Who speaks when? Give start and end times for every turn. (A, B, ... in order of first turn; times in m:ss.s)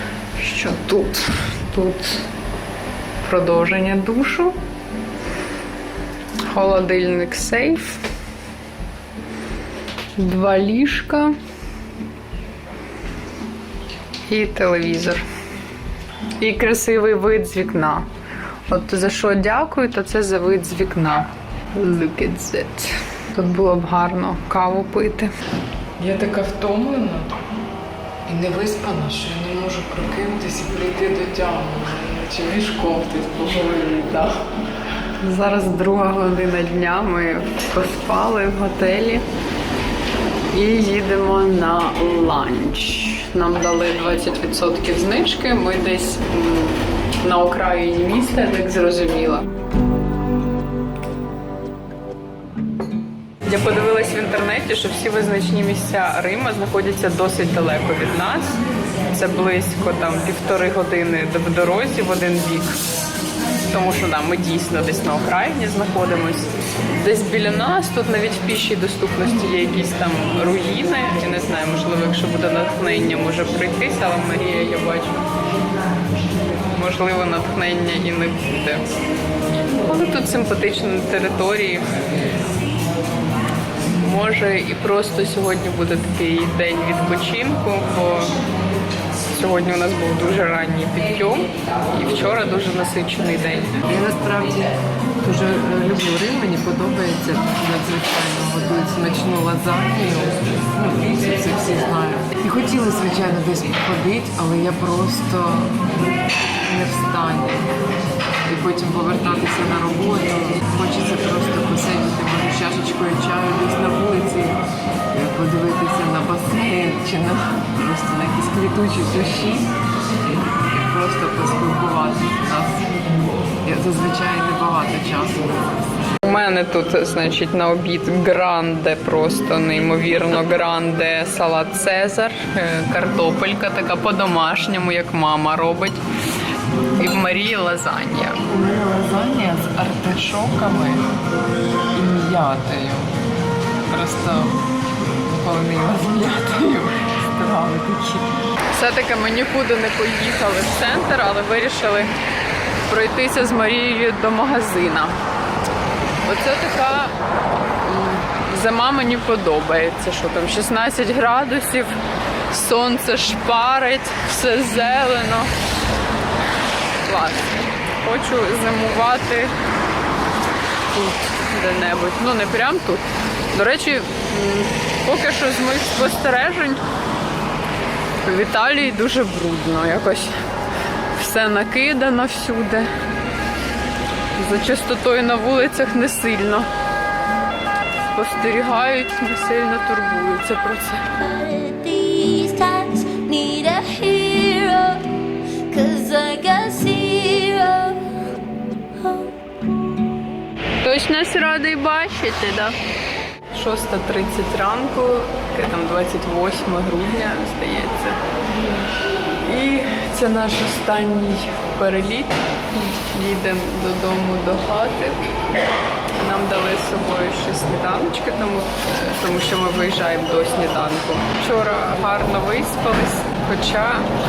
0:00.4-0:02.2 A
0:03.2-0:04.6 A
0:06.5-0:08.0 A
0:10.2-0:11.3 A
0:14.3-0:15.2 A
0:16.4-0:18.1 A
0:18.7-0:25.3 A
0:26.0-0:27.4 B
0:28.3-0:33.8 B
0:33.5-0:34.3 A
0:35.2-0:39.2 A
0:40.5-0:49.4 A
0:53.5-0:58.6 A
0:59.1-1:02.8 A
1:03.7-1:15.3 A
1:16.7-1:18.9 A
1:19.8-1:21.8 A
1:23.9-1:28.4 A
1:29.3-1:33.8 A
1:33.8-1:45.9 B
1:46.6-1:47.7 B
1:48.4-1:59.7 B
2:00.7-2:02.9 B
2:03.6-2:06.1 B
2:06.2-2:16.0 A
2:17.0-2:18.4 A
2:18.5-2:21.1 B
2:21.9-2:23.1 B
2:23.9-2:24.6 B
2:25.3-2:28.5 B
2:28.7-2:32.1 A
2:32.9-2:35.2 A
2:36.3-2:37.1 A
2:37.8-2:42.0 A
2:42.5-2:45.5 A
2:47.0-2:49.5 A
2:50.9-2:56.8 A
2:58.2-3:00.3 A
3:01.1-3:02.9 A
3:04.4-3:06.7 A
3:08.0-3:11.1 A
3:11.2-3:15.1 C
3:15.7-3:18.1 C
3:19.0-3:19.4 C
3:20.8-3:22.8 A
3:23.5-3:28.2 A
3:29.4-3:35.4 A
3:36.2-3:44.1 A